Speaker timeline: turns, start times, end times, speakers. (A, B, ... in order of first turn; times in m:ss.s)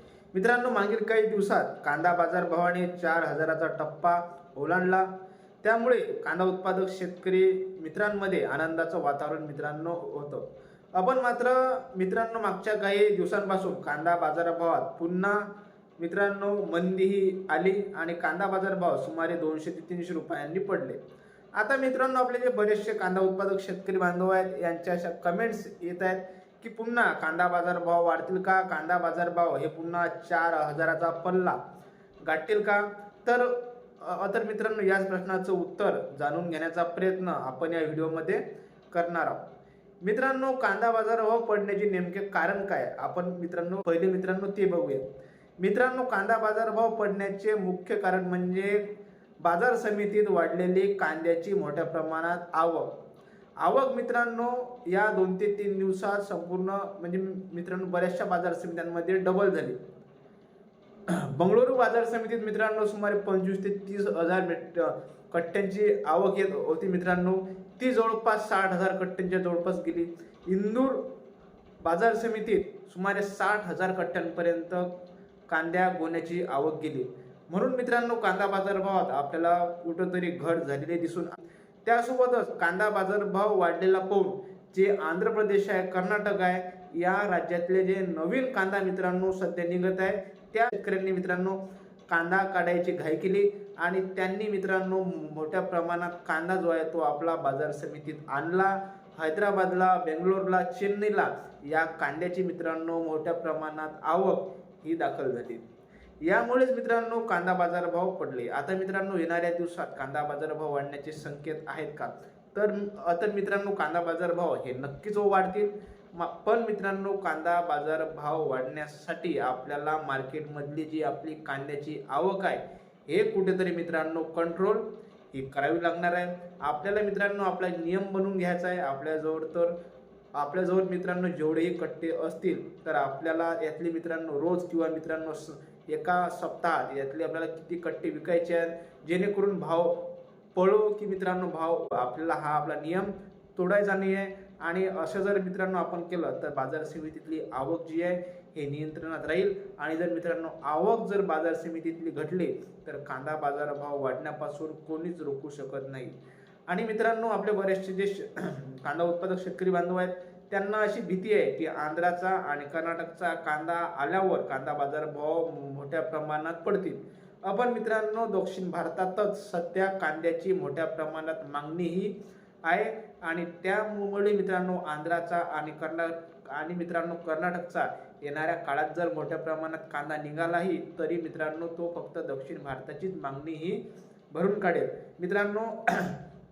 0:00.3-0:05.1 A
0:05.6-0:21.0 A
0:21.5-0:31.6 A
0:32.2-0:39.4 A
0:40.0-0:45.0 A
0:45.6-0:52.9 A
0:53.6-0:59.8 A
1:01.1-1:11.1 A
1:11.8-1:15.0 A
1:15.5-1:45.6 A
1:46.2-2:09.7 A
2:10.3-2:36.1 A
2:36.7-3:06.2 A